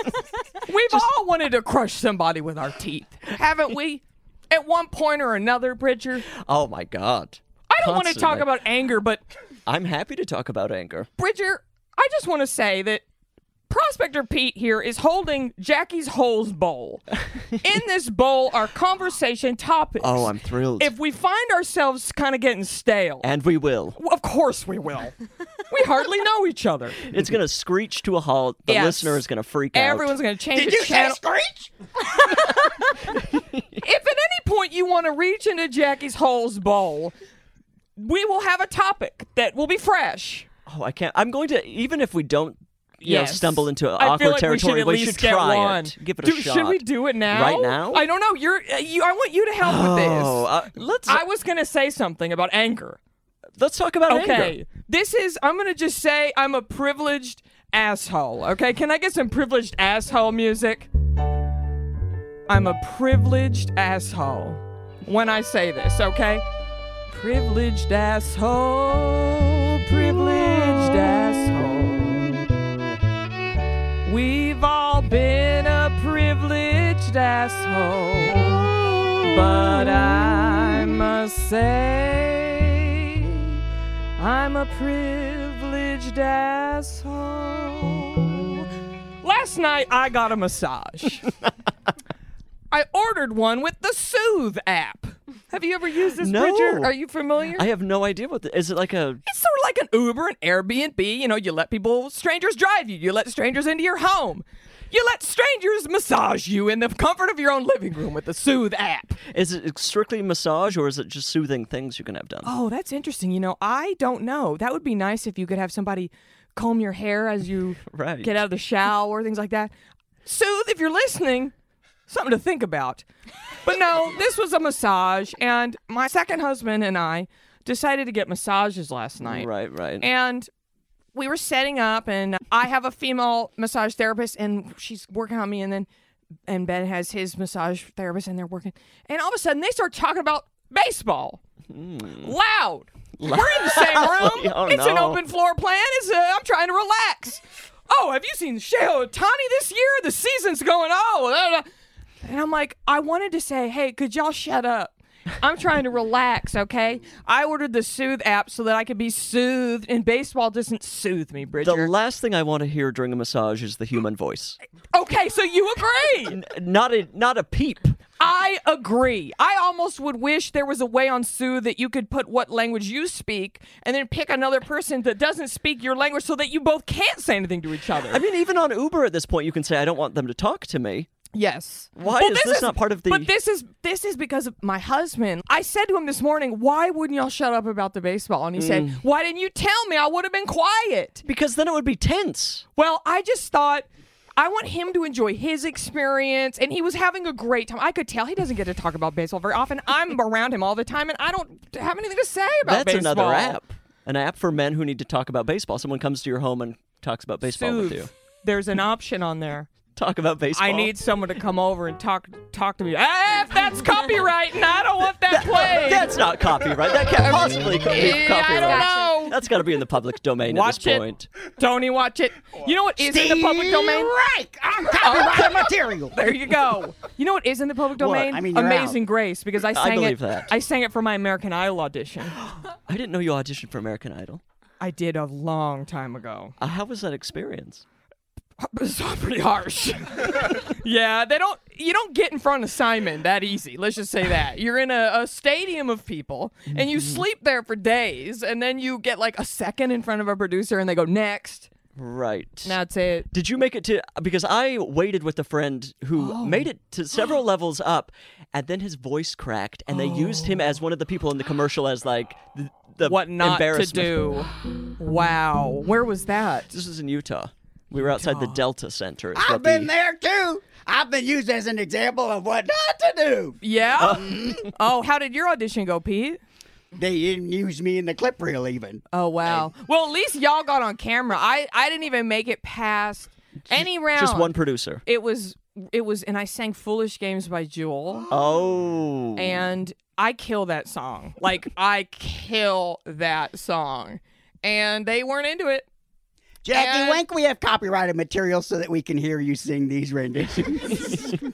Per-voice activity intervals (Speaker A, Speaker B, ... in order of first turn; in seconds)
Speaker A: 0.6-6.3, 7.7-9.2, 11.2-13.0, 13.7-17.0, 17.6-23.3, 24.0-25.1, 25.7-27.0, 28.7-29.2, 29.7-31.2, 32.3-32.7, 33.8-37.1, 38.0-40.5, 43.0-50.5, 51.1-53.0, 54.1-60.9, 62.5-66.5, 67.1-72.4, 74.0-83.5, 84.2-88.7, 89.2-91.3, 92.7-97.7, 99.2-109.2, 112.5-119.7, 120.2-121.5, 122.1-123.0, 123.6-129.5, 130.0-130.5, 131.1-135.9, 136.5-141.4, 142.2-151.7, 152.2-161.9, 164.9-166.4, 168.2-178.2, 181.3-191.2, 192.8-203.6, 207.4-209.7, 210.5-216.1, 217.2-219.4, 220.5-224.2, 225.0-232.4, 234.8-236.6, 238.6-251.7, 252.6-253.3, 256.2-256.7, 259.9-260.7, 263.0-266.8, 268.0-268.6, 273.6-276.4, 279.1-288.2, 289.4-295.9, 296.7-297.2
Speaker B: 6.3-8.5, 9.7-11.1, 20.0-20.9, 23.2-24.0, 27.0-30.2, 33.3-33.7, 40.7-48.1, 49.6-51.2, 53.6-54.6, 79.3-79.8, 96.2-96.9, 97.5-99.2, 109.3-112.5, 117.8-118.4, 129.2-130.1, 141.7-142.4, 143.2-145.2, 161.6-164.6, 166.2-168.0, 178.0-181.1, 182.0-183.3, 188.6-189.0, 191.2-192.7, 202.6-208.1, 210.0-210.9, 215.3-221.3, 228.0-228.3, 229.7-230.5, 232.5-234.4, 236.6-237.8, 246.7-247.2, 251.9-252.8, 253.3-264.4, 266.7-269.9, 274.0-274.4, 283.7-285.0, 288.3-289.6
Speaker C: 30.5-31.7, 223.0-226.2, 228.1-229.0, 269.3-274.7, 276.9-279.0, 296.6-301.4